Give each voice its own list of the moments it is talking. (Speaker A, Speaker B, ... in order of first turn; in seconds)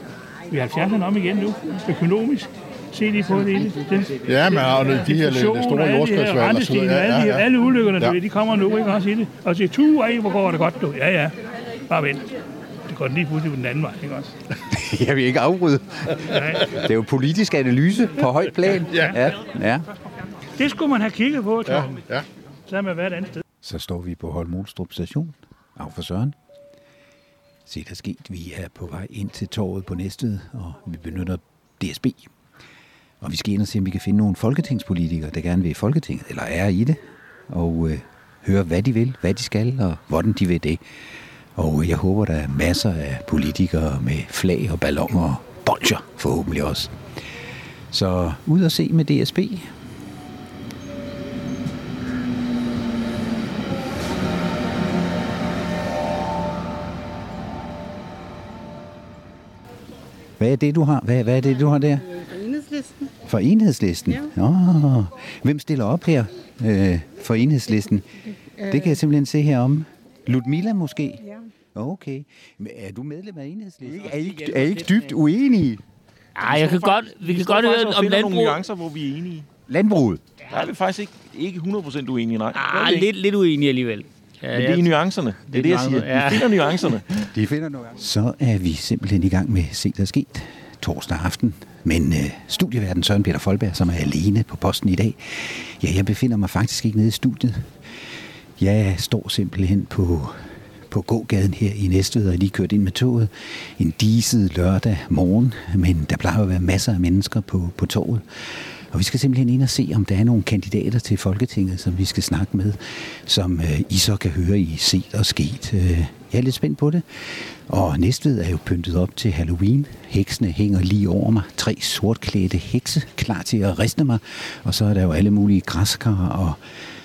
Speaker A: 0.5-11.3, 11.9-12.3, 12.9-14.3, 16.3-16.6, 20.6-22.0, 22.7-23.4
Speaker B: 4.2-7.4, 21.7-22.2
Speaker C: 14.7-19.9, 23.6-26.4, 27.7-32.3, 33.2-40.8, 41.5-46.9, 47.9-49.7, 60.4-62.0, 63.2-68.1, 68.6-75.8, 79.7-80.2, 87.3-97.7, 98.6-126.6
Speaker D: 74.0-75.1, 76.3-78.6, 82.5-84.9, 85.5-87.0
Speaker E: 76.4-79.5, 80.5-83.1, 84.5-87.0